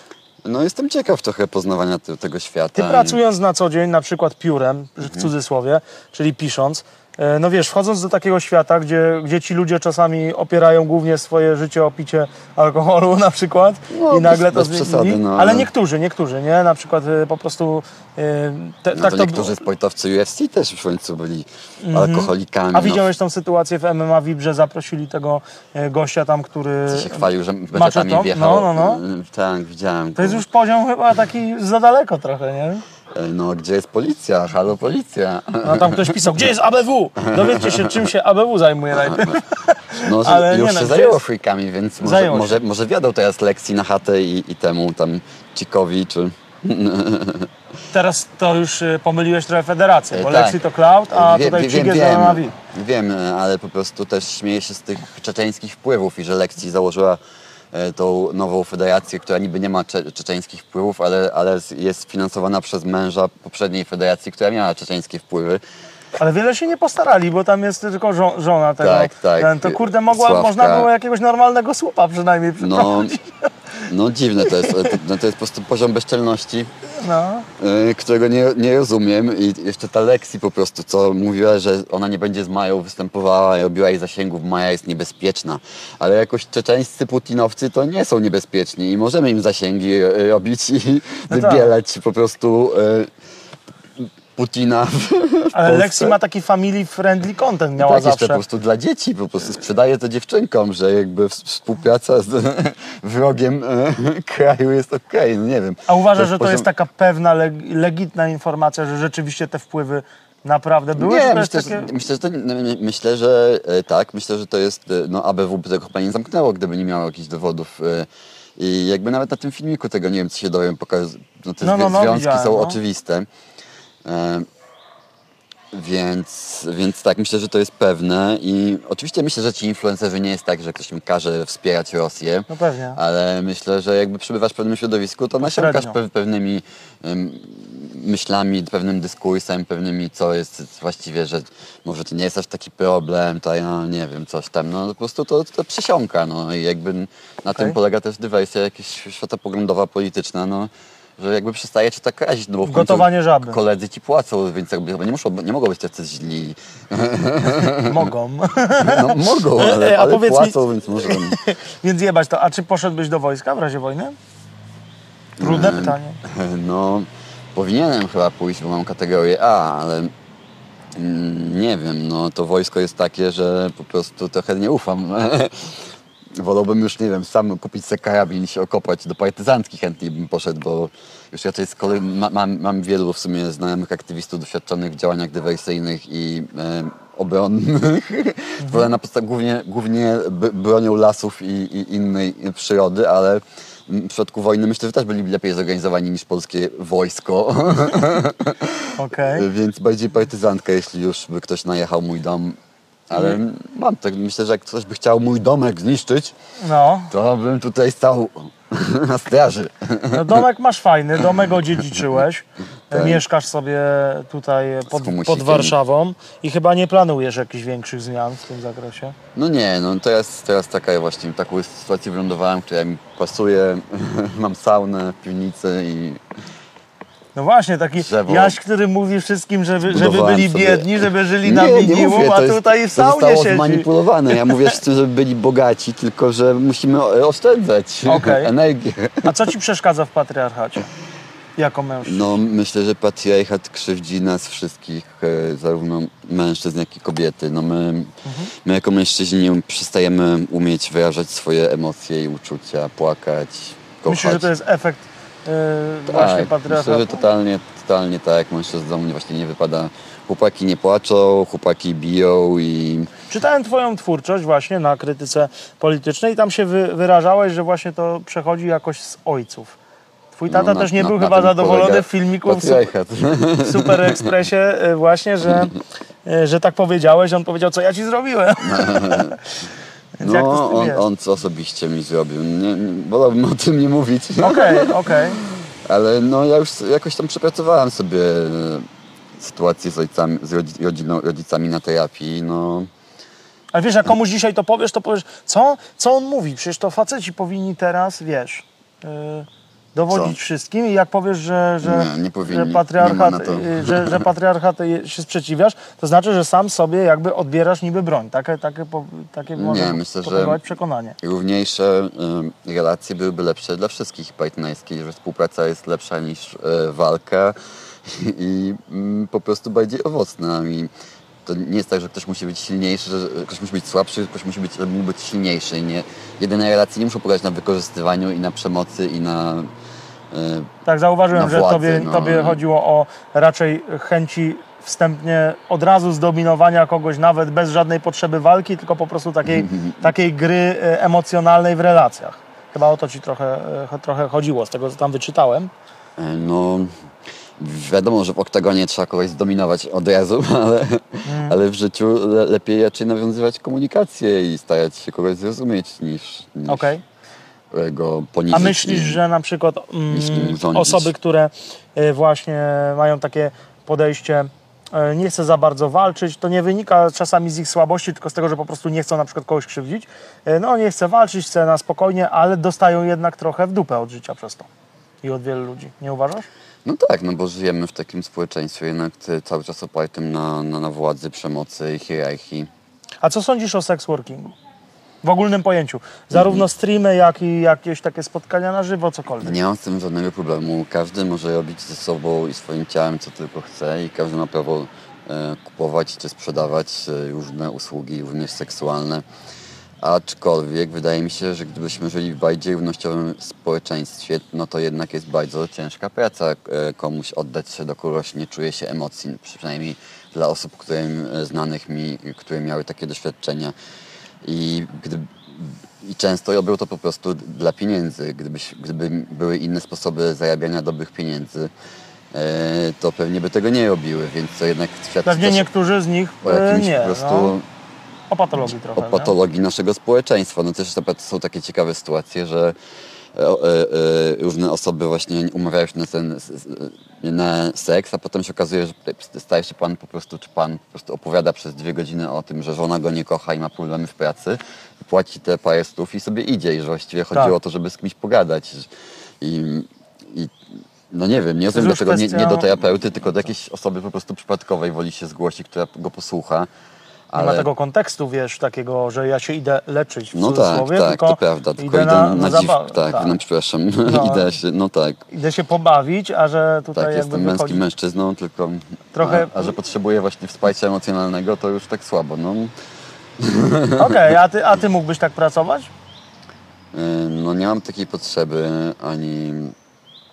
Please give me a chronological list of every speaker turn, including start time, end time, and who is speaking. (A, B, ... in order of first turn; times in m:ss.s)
0:00.4-0:03.2 A
0:02.8-0:19.6 B
0:05.0-0:05.3 A
0:13.9-0:15.7 A
0:18.9-0:23.0 A
0:21.8-0:29.0 B
0:26.9-0:30.4 A
0:30.2-0:32.8 B
0:33.1-0:36.4 A
0:35.6-0:41.2 B
0:37.2-0:38.1 A
0:38.9-0:39.4 A
0:40.0-0:47.5 A
0:42.0-0:42.6 B
0:47.9-0:52.6 B
0:50.1-0:50.6 A
0:51.1-0:57.2 A
0:57.7-1:05.6 A
1:06.2-1:13.8 B
1:08.8-1:10.9 A
1:12.6-1:13.2 A
1:13.8-1:16.7 A
1:14.4-1:15.0 B
1:16.9-1:17.5 B
1:17.6-1:33.1 A
1:31.3-1:31.7 B
1:34.0-1:36.2 A
1:35.5-1:38.4 B
1:37.8-1:46.7 A
1:45.9-1:51.9 B
1:51.0-2:03.3 A
2:01.6-2:02.8 B
2:04.0-2:04.5 A
2:05.7-2:38.0 A
2:12.5-2:13.0 B
2:15.4-2:16.0 B
2:32.6-2:33.6 B
2:37.8-2:44.2 B
2:38.8-2:41.4 A
2:45.4-2:50.1 A
2:45.4-2:46.2 B
2:51.0-3:22.6 A
3:08.6-3:08.9 B
3:19.0-3:19.5 B
3:23.1-3:26.4 A
3:23.1-3:23.4 B
3:26.6-3:27.1 B
3:27.1-3:30.4 A
3:30.1-3:39.1 B
3:32.9-3:33.2 A
3:34.9-3:35.8 A
3:39.4-3:46.2 A
3:47.4-3:54.8 B
3:48.0-3:48.6 A
3:49.8-3:59.4 A
3:58.1-3:58.5 B
3:59.2-4:00.9 B
4:01.6-4:02.3 B
4:02.0-4:14.5 A
4:08.2-4:08.5 B
4:14.1-4:17.3 B
4:16.1-4:23.1 A
4:23.3-4:29.8 B
4:30.4-4:32.9 B
4:30.5-4:34.3 A
4:33.6-4:39.4 B
4:38.6-4:39.4 A
4:40.2-4:41.0 B
4:40.2-4:48.9 A
4:44.4-4:45.4 B
4:49.4-4:52.9 A
4:53.7-5:11.2 B
5:00.1-5:00.4 A
5:01.8-5:04.2 A
5:09.5-5:10.6 A
5:11.2-5:20.9 A
5:21.4-5:29.7 A
5:30.3-5:30.7 A
5:30.9-5:45.7 B
5:31.3-5:32.6 A
5:39.4-5:40.1 A
5:46.2-5:46.9 A
5:47.6-5:57.0 A
5:51.3-5:51.6 B
5:56.7-5:57.0 B
5:57.7-5:59.2 A
5:58.5-6:14.7 B
6:00.1-6:01.1 A
6:15.2-6:16.4 B
6:16.8-6:22.7 A
6:23.2-6:24.6 B
6:25.2-6:29.6 B
6:26.3-6:26.6 A
6:29.4-6:39.2 A
6:40.0-6:53.7 A
6:54.4-7:01.7 A
7:02.3-7:05.7 A
7:05.2-7:07.5 B
7:06.4-7:07.6 A
7:08.3-7:09.3 B
7:08.9-7:12.8 A
7:13.3-7:28.9 A
7:29.4-7:30.6 A
7:31.1-7:36.7 A
7:31.7-7:32.8 B
7:37.3-7:37.7 A
7:37.4-7:43.4 B
7:40.3-7:45.2 A
7:44.0-7:44.5 B
7:45.3-7:47.8 B
7:47.0-7:52.7 A
7:49.1-7:49.7 B
7:53.4-7:54.2 A
7:54.0-7:55.9 B
7:56.9-7:59.7 A